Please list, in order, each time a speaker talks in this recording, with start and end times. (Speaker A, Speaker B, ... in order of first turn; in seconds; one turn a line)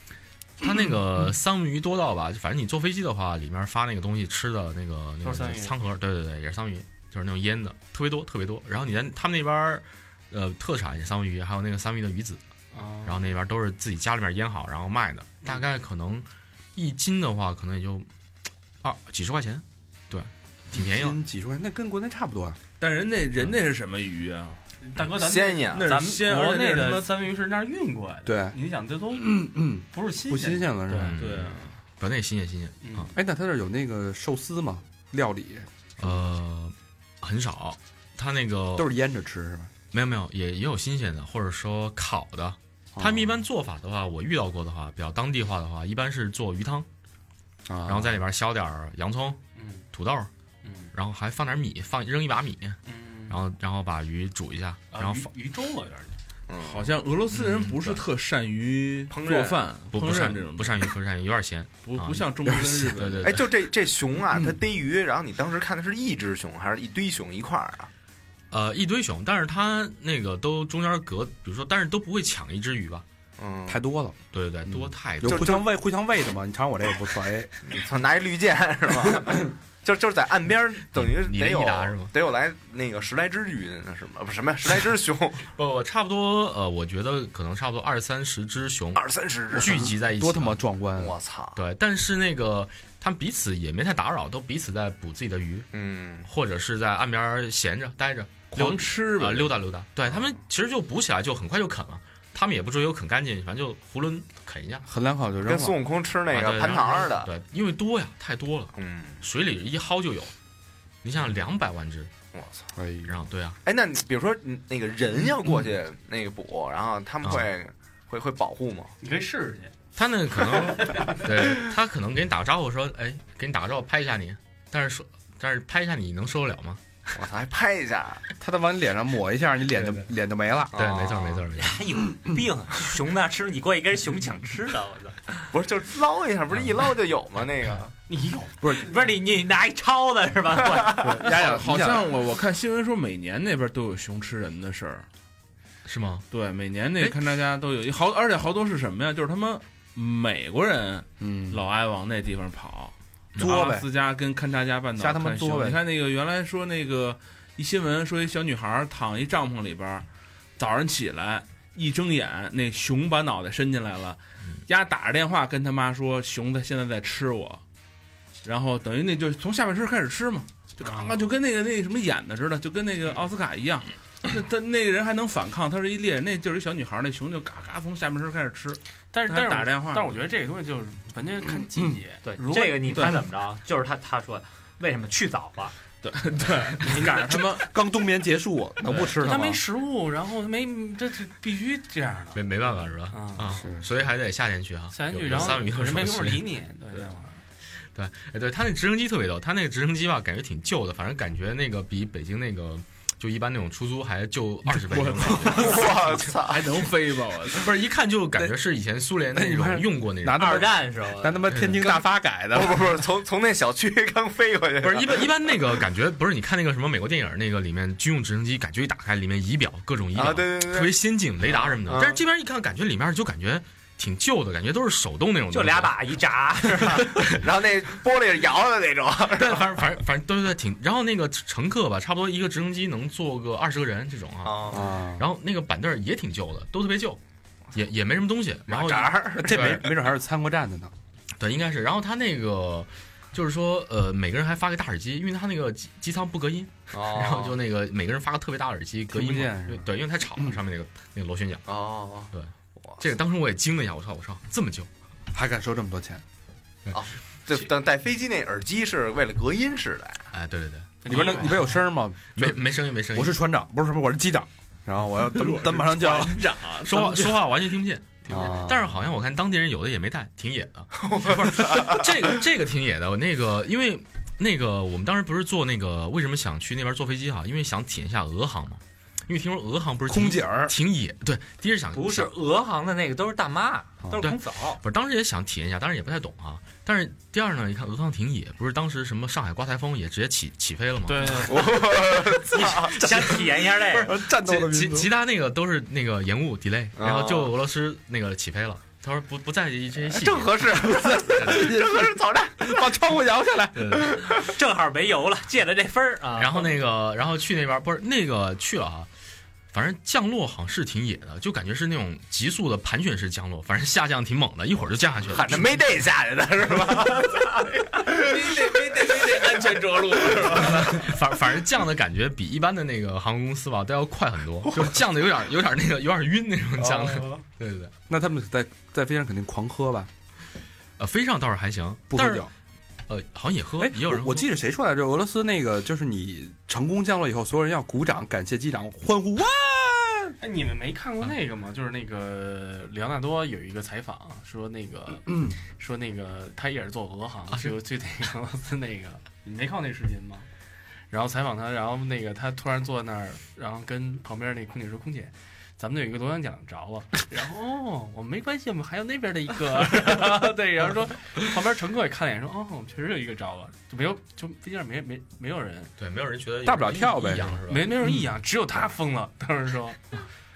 Speaker A: 0.6-12.4
Speaker B: 5.2-5.8
Speaker B: 12.7-13.3
Speaker A: 13.1-18.1
Speaker A: 18.8-21.2
Speaker C: 20.7-22.6
Speaker D: 22.8-24.6
Speaker B: 24.8-31.1
Speaker E: 25.1-26.0
Speaker D: 25.7-27.1
Speaker C: 28.2-28.6
Speaker C: 29.1-31.2
Speaker A: 30.9-33.1
Speaker D: 31.1-31.7
Speaker B: 32.8-33.1
Speaker C: 33.1-36.3
Speaker A: 36.0-38.9
Speaker C: 38.8-39.7
Speaker A: 39.9-46.9
Speaker C: 43.0-43.4
Speaker C: 47.6-48.2
Speaker A: 47.9-49.4
Speaker B: 49.5-49.8
Speaker A: 49.9-50.3
Speaker B: 50.6-50.9
Speaker A: 50.9-55.3
Speaker B: 52.9-53.4
Speaker B: 54.9-56.2
Speaker E: 56.5-57.0
Speaker D: 56.6-60.9
Speaker A: 57.3-58.0
Speaker E: 59.1-59.6
Speaker A: 59.9-63.5
Speaker D: 61.8-63.3
Speaker E: 63.2-67.9
Speaker C: 64.3-64.6
Speaker A: 68.5-73.0
Speaker E: 73.4-73.8
Speaker C: 73.7-74.2
Speaker A: 74.3-75.5
Speaker C: 74.7-77.5
Speaker E: 75.2-75.7
Speaker E: 77.6-85.5
Speaker A: 80.9-82.1
Speaker A: 85.5-90.6
Speaker E: 88.9-89.9
Speaker C: 89.5-91.1
Speaker E: 91.0-91.6
Speaker A: 91.5-95.7
Speaker E: 95.7-96.3
Speaker A: 96.2-104.8
Speaker D: 98.5-99.6
Speaker C: 104.8-105.8
Speaker E: 105.4-107.3
Speaker A: 106.3-110.3
Speaker E: 108.8-109.2
Speaker A: 111.0-112.1
Speaker E: 112.3-112.7
Speaker C: 112.7-113.1
Speaker A: 113.0-113.6
Speaker E: 113.6-118.9
Speaker A: 117.2-117.5
Speaker B: 119.0-119.7
Speaker A: 120.0-126.8
Speaker B: 120.6-121.2
Speaker E: 127.1-128.2
Speaker C: 128.4-130.7
Speaker A: 129.7-130.1
Speaker E: 130.7-131.5
Speaker A: 130.7-131.8
Speaker F: 131.6-135.2
Speaker E: 135.5-137.9
Speaker B: 138.1-138.7
Speaker C: 138.6-138.9
Speaker F: 138.7-141.3
Speaker C: 141.0-142.1
Speaker D: 141.2-145.1
Speaker A: 145.8-146.3
Speaker D: 146.3-160.1
Speaker C: 151.2-151.6
Speaker C: 153.4-153.9
Speaker C: 154.9-155.8
Speaker D: 160.6-167.6
Speaker D: 168.4-180.2
Speaker B: 179.1-183.2
Speaker F: 182.2-185.7
Speaker D: 182.9-183.2
Speaker D: 186.0-187.7
Speaker C: 186.9-189.6
Speaker D: 188.8-189.3
Speaker B: 189.2-193.6
Speaker A: 192.3-196.4
Speaker C: 193.4-193.9
Speaker B: 194.9-197.4
Speaker A: 197.9-206.2
Speaker D: 204.8-207.7
Speaker C: 205.2-205.6
Speaker E: 205.5-206.8
Speaker A: 207.5-210.7
Speaker C: 209.3-213.0
Speaker F: 210.3-211.5
Speaker A: 211.5-211.9
Speaker E: 212.5-215.5
Speaker A: 214.8-226.0
Speaker E: 220.1-220.9
Speaker E: 221.5-222.2
Speaker F: 225.5-227.3
Speaker E: 226.7-229.8
Speaker A: 229.3-237.2
Speaker E: 234.4-234.9
Speaker C: 234.7-235.3
Speaker A: 237.7-239.8
Speaker E: 238.7-239.9
Speaker C: 239.3-240.9
Speaker A: 241.4-251.7
Speaker E: 246.9-247.6
Speaker C: 249.1-250.6
Speaker E: 251.7-252.3
Speaker A: 252.3-254.9
Speaker C: 255.3-256.2
Speaker E: 256.9-260.2
Speaker A: 260.3-261.6
Speaker B: 261.0-261.8
Speaker C: 261.1-266.4
Speaker A: 262.3-263.4
Speaker D: 265.3-267.5
Speaker A: 266.8-282.3
Speaker C: 268.3-269.0
Speaker E: 271.0-272.1
Speaker C: 280.1-280.7
Speaker F: 281.9-284.8
Speaker A: 284.2-291.5
Speaker B: 291.1-291.6
Speaker F: 291.1-291.4
Speaker E: 291.4-293.0
Speaker F: 292.5-294.1
Speaker C: 292.8-295.1
Speaker A: 294.3-301.7
Speaker E: 297.0-297.5
Speaker E: 300.1-302.9
Speaker C: 300.8-304.1
Speaker A: 303.7-304.1
Speaker F: 304.4-306.7
Speaker A: 306.3-309.1
Speaker A: 309.7-315.7
Speaker E: 315.3-318.1
Speaker D: 318.1-321.1
Speaker E: 318.8-319.4
Speaker A: 320.4-327.9
Speaker C: 328.1-330.1
Speaker A: 331.0-332.5
Speaker C: 332.1-332.5
Speaker A: 333.1-334.5
Speaker C: 333.8-340.4
Speaker B: 340.4-350.4
Speaker C: 345.3-345.5
Speaker B: 351.1-365.9
Speaker A: 366.0-368.1
Speaker C: 366.6-368.2
Speaker B: 367.7-370.1